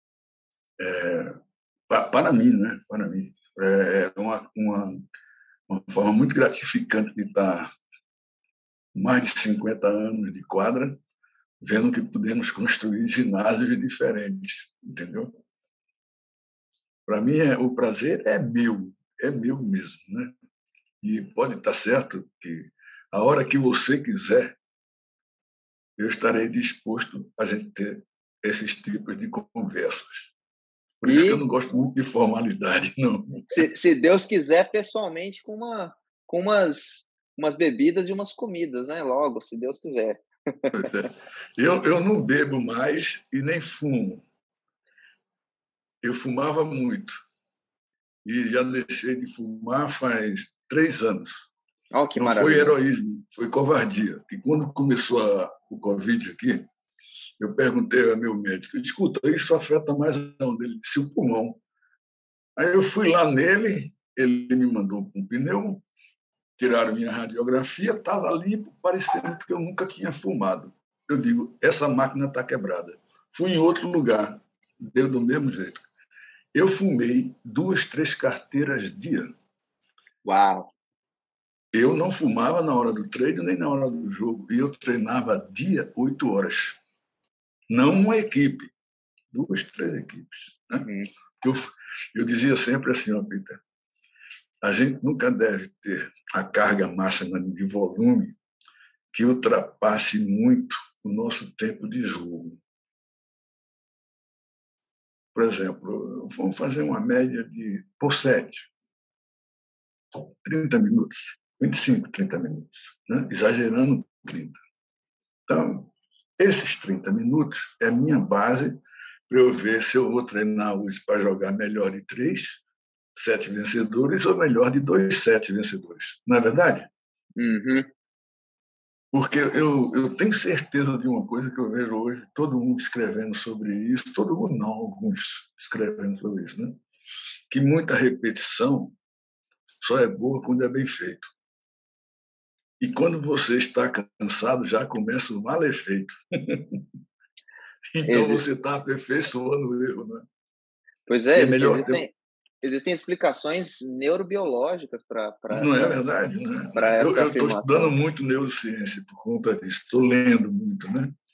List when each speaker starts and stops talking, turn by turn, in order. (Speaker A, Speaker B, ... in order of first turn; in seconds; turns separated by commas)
Speaker A: 0.8-1.4, Speaker A: 1.9-5.0, Speaker A: 5.7-7.7, Speaker A: 8.9-11.0, Speaker A: 11.6-15.4, Speaker A: 17.1-20.3, Speaker A: 21.0-24.6, Speaker A: 26.0-30.3, Speaker A: 31.0-33.7, Speaker B: 31.1-31.4, Speaker B: 33.5-40.9, Speaker A: 40.7-44.2, Speaker A: 46.0-47.2, Speaker A: 48.2-51.5, Speaker B: 51.9-52.8, Speaker A: 52.2-56.7, Speaker A: 57.4-61.6, Speaker A: 62.6-65.8, Speaker A: 66.6-75.8, Speaker A: 76.5-79.3, Speaker B: 80.2-80.7, Speaker A: 81.7-86.8, Speaker A: 87.7-88.7, Speaker A: 89.3-90.9, Speaker B: 90.8-91.1, Speaker A: 91.4-93.6, Speaker A: 94.6-98.4, Speaker A: 99.1-102.6, Speaker A: 105.3-108.7, Speaker A: 110.2-114.6, Speaker A: 115.5-122.6, Speaker A: 123.2-126.9, Speaker B: 127.4-127.9, Speaker A: 129.1-136.8, Speaker A: 137.5-139.0, Speaker A: 139.8-141.3, Speaker A: 142.8-146.9, Speaker A: 147.9-150.3, Speaker B: 148.1-148.4, Speaker B: 151.1-156.0, Speaker A: 151.3-152.0, Speaker A: 155.5-161.2, Speaker B: 156.8-157.9